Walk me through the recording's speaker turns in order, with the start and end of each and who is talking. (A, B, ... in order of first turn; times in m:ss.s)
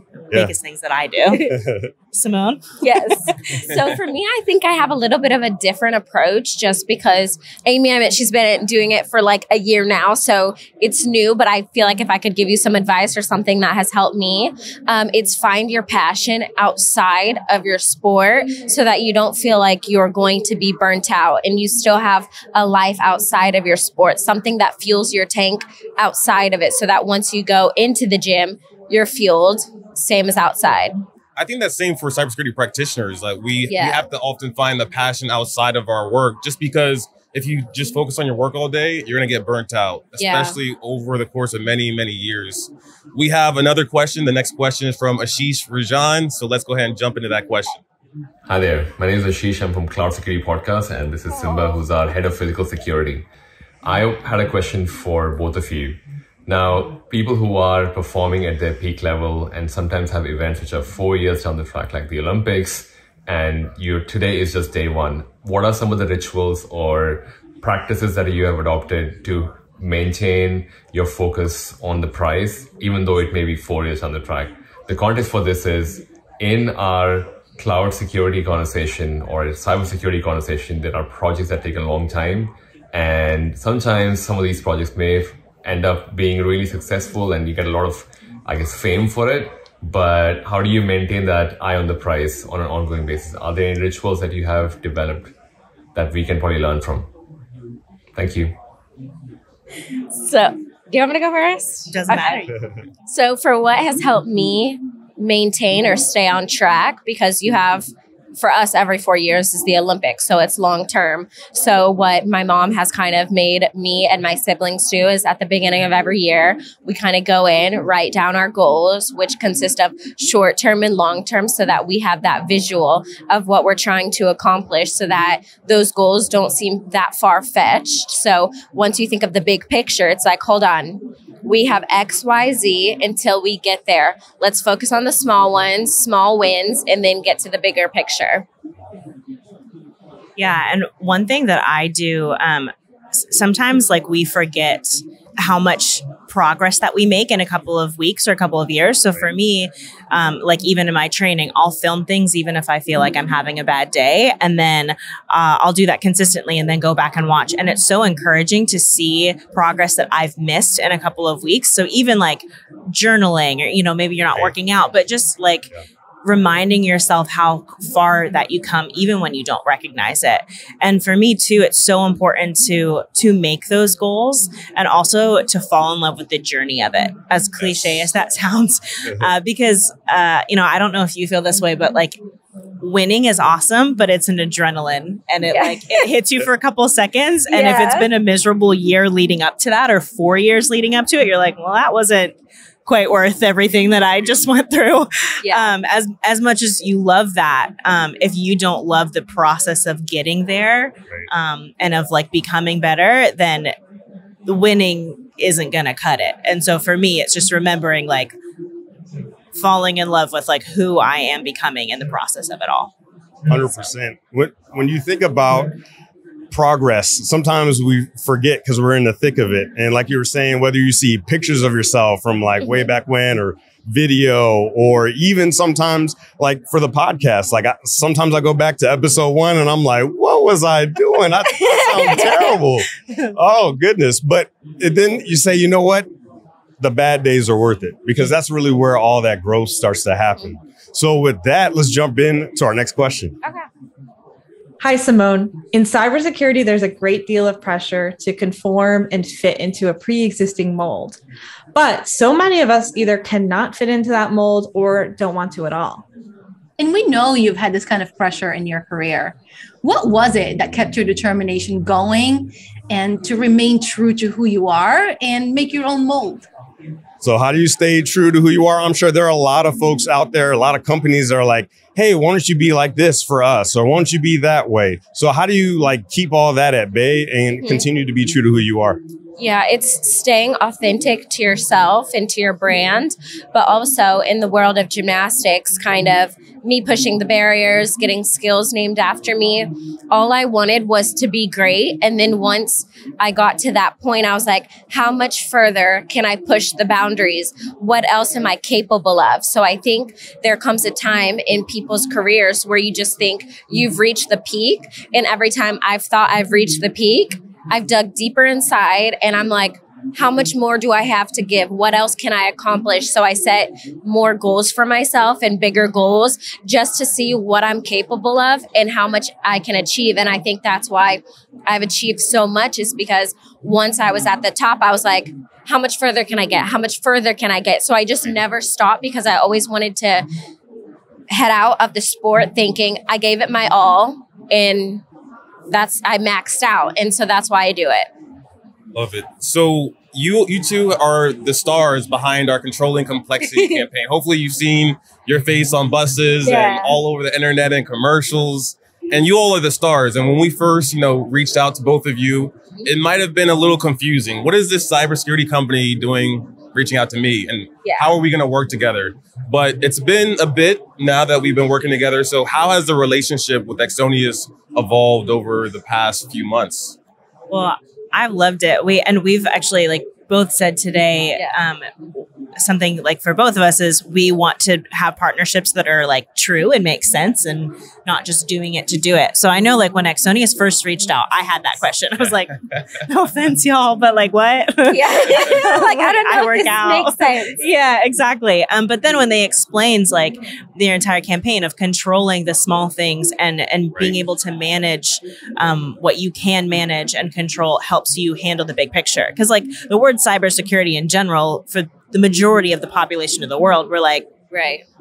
0:00.3-0:01.5 A
0:01.5-0:01.9 B
0:02.1-0:03.1 A
0:02.8-0:31.0 C
0:31.4-0:47.8 D
0:33.7-0:34.1 C
0:40.2-0:40.6 C
0:48.4-0:53.3 E
0:51.4-0:51.8 C
0:53.8-1:35.3 E
1:36.0-1:37.1 E
1:38.1-1:38.6 E
1:40.1-1:42.5 C
1:41.9-1:42.5 A
1:43.1-2:18.4 C
2:20.4-2:45.7 A
2:46.2-3:02.2 A
3:02.8-3:23.8 A
3:05.5-3:06.0 C
3:07.5-3:08.1 C
3:15.4-3:15.7 C
3:24.5-3:28.4 A
3:29.5-3:32.9 A
3:33.5-3:35.7 B
3:36.5-3:56.1 B
3:51.7-3:52.4 C
3:56.8-4:03.4 B
4:04.8-4:11.2 F
4:11.8-4:16.0 F
4:16.8-4:26.5 G
4:27.2-4:39.0 B
4:39.4-5:30.3 C
5:31.3-5:35.0 C
5:35.7-5:38.1 C
5:39.0-6:07.0 D
5:43.5-5:43.8 C
5:46.4-5:47.0 C
5:57.8-5:58.2 C
6:07.5-6:11.9 A
6:12.6-6:44.3 A
6:24.9-6:27.6 C
6:44.5-6:44.8 C